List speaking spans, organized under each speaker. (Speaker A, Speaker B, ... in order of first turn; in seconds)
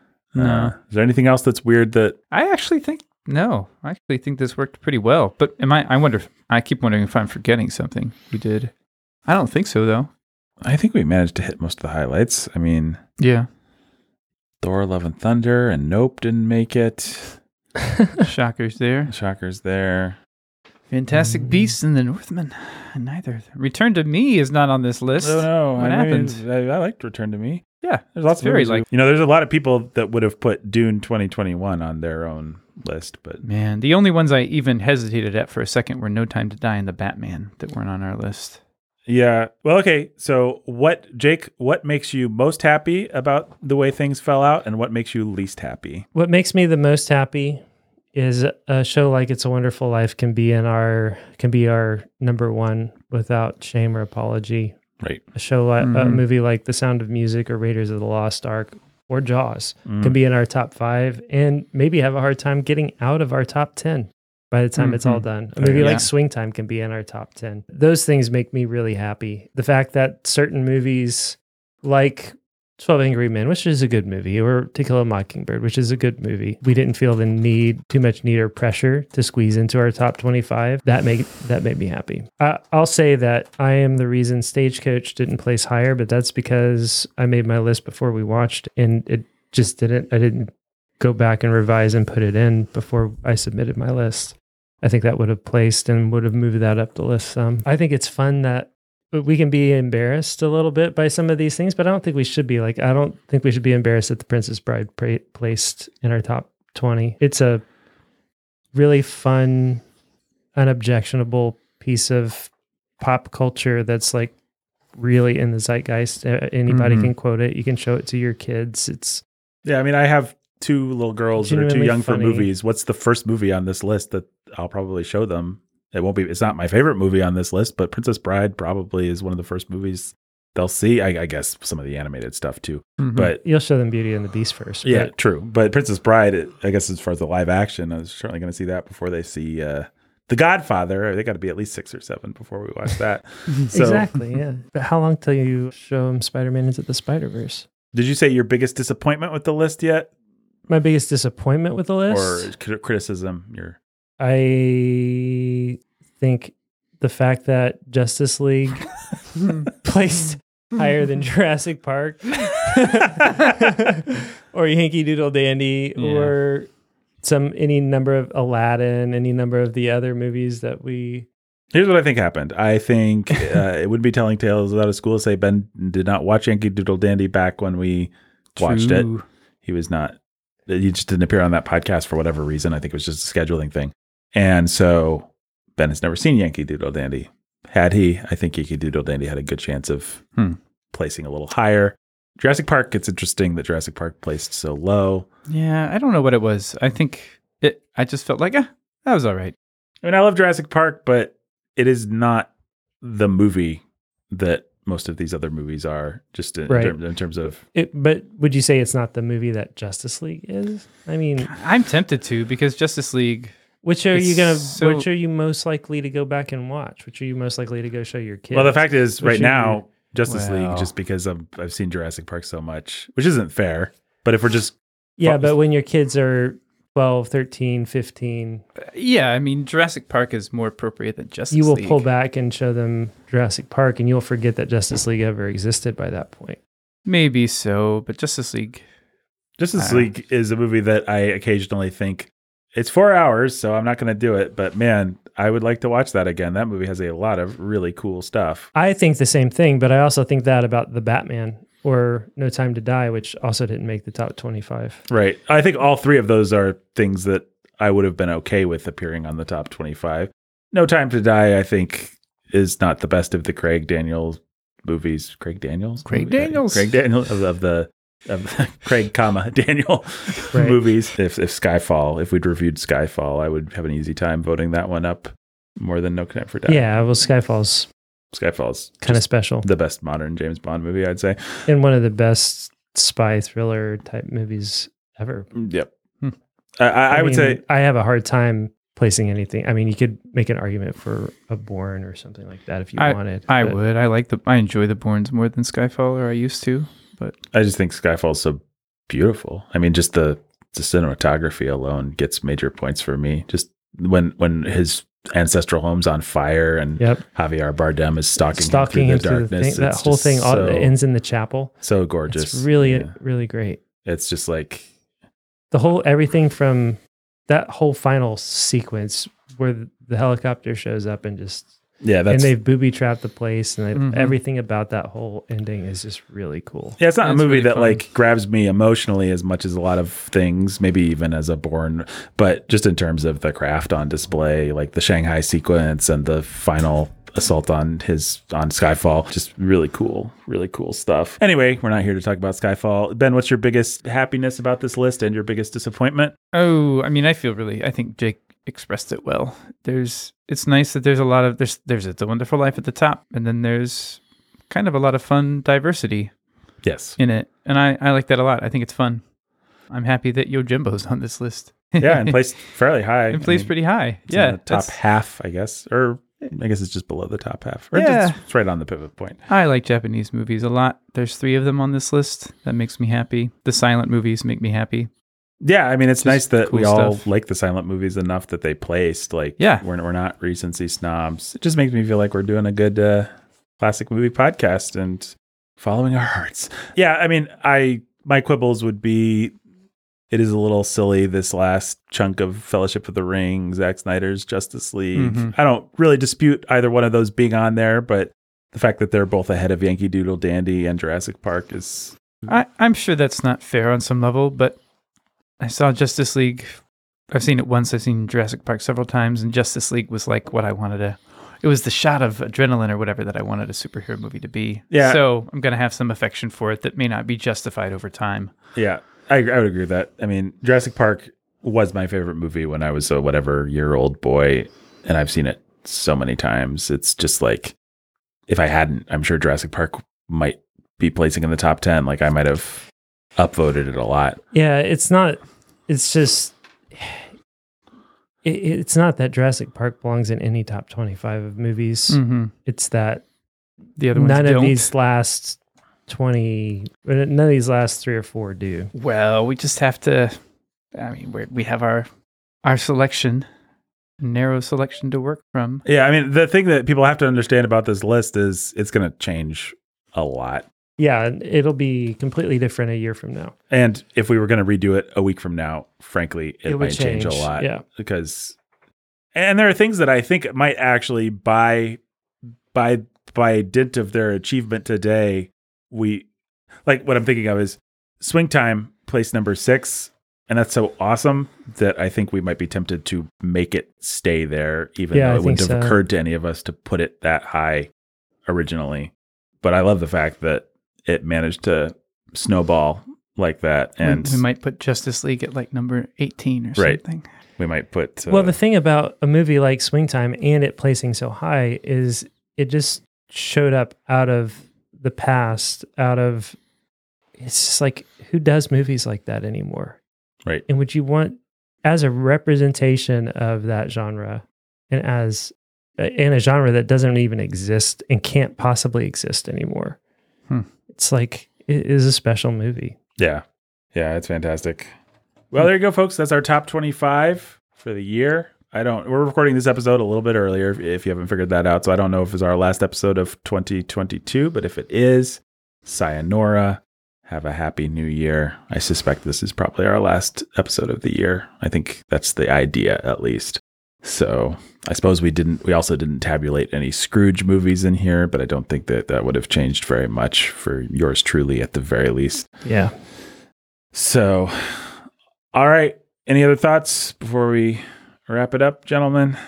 Speaker A: 0.3-2.1, 10.6-13.0, 14.6-17.4, 19.1-20.2, 25.2-33.4, 39.1-46.0, 59.9-60.1, 65.6-65.9, 119.6-133.4, 134.8-144.1, 147.9-150.1, 152.1-153.8, 171.7-179.1, 179.6-190.3, 190.9-195.2, 200.0-202.5, 203.0-207.6, 218.5-225.5, 239.6-248.7, 255.1-276.9, 278.3-281.6, 285.5-285.9, 286.8-287.6, 297.5-310.9, 311.8-313.1, 314.0-314.9, 322.0-322.5, 327.0-346.3, 356.8-357.2, 362.0-363.7, 364.2-369.4, 375.6-389.5, 390.3-402.2, 414.9-415.2, 418.8-427.7, 428.5-434.4, 455.8-460.6, 463.7-468.6, 469.3-472.0, 472.7-476.3, 476.9-487.9, 488.5-494.4, 497.6-498.6, 523.2-523.4, 523.9-524.9, 525.5-552.5, 553.9-555.0, 555.5-559.4
Speaker B: 0.3-0.7, 2.3-8.7, 9.2-10.1, 13.2-13.5, 18.2-19.1, 20.9-26.4, 27.8-28.8, 33.4-38.6, 55.8-56.2, 64.8-65.2, 65.8-66.0, 116.7-117.1, 133.0-133.3, 166.0-166.3, 178.6-179.2, 195.5-199.5, 211.4-213.5, 214.1-215.1, 220.3-220.9, 228.8-232.0, 237.1-238.8, 239.8-240.1, 266.1-266.9, 293.0-297.4, 323.9-324.3, 327.2-328.0, 346.5-356.3, 357.2-359.2, 359.9-362.4, 363.3-364.9, 367.9-368.4, 369.5-375.1, 376.2-377.2, 379.6-379.8, 395.1-395.5, 402.5-404.8, 405.6-406.8, 407.3-418.5, 442.1-442.5, 444.0-444.9, 448.9-450.4, 450.9-452.1, 452.6-453.4, 454.2-455.8, 494.0-497.3
Speaker C: 46.1-47.6, 48.1-54.8, 55.3-107.6, 108.7-109.8, 110.5-114.3, 114.9-119.2, 121.4-122.5, 133.3-135.1, 143.7-147.7, 150.7-152.5, 154.2-158.9, 159.7-166.7, 167.2-171.3, 206.7-206.9, 207.7-211.5, 213.8-219.8, 225.2-228.6, 231.5-236.6, 248.7-255.0, 270.5-270.8, 276.7-277.9, 279.1-279.6, 281.7-285.5, 287.1-293.8, 308.4-313.8, 315.7-321.7, 322.3-327.0, 434.5-437.3, 438.4-443.2, 444.1-448.9, 461.0-463.5, 466.6-467.8, 485.1-486.0, 498.3-506.6, 507.4-510.0, 510.7-520.0, 520.9-523.0, 552.6-552.9